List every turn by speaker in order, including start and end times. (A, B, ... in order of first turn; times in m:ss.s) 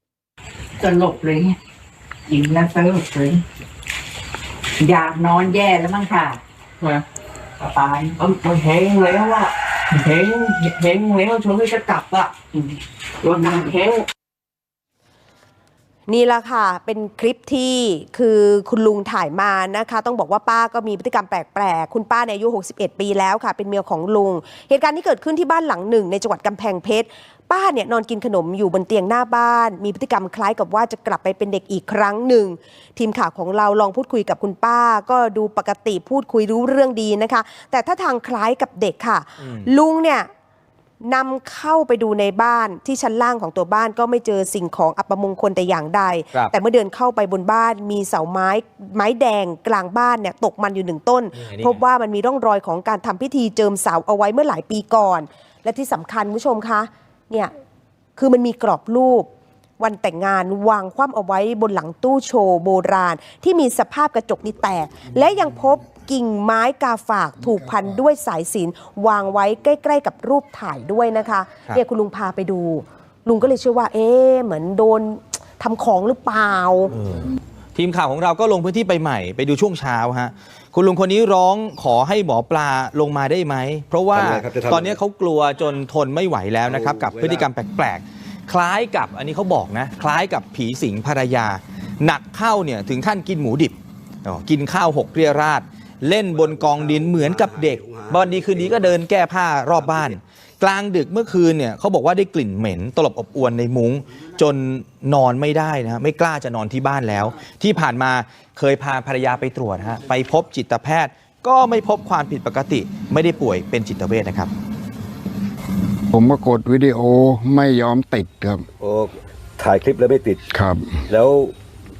0:00.8-0:01.6 A
0:02.3-0:03.4 A
0:04.8-0:06.4 A
0:07.6-0:08.1 A
0:08.2-0:12.5 B
0:13.2-0:14.0 B
0:16.1-0:40.3 C
0:39.4-0:39.7 D
0:41.0-0:57.5 C
0:51.4-0:51.8 D
0:58.2-0:59.3 C
0:59.8-1:16.9 C
1:16.9-1:54.5 D
1:24.1-1:25.0 E
1:26.6-1:27.5 E
1:36.4-1:39.0 E
1:56.1-1:58.7 F
1:58.8-2:00.4 E
2:00.5-2:01.0 F
2:01.1-2:01.5 E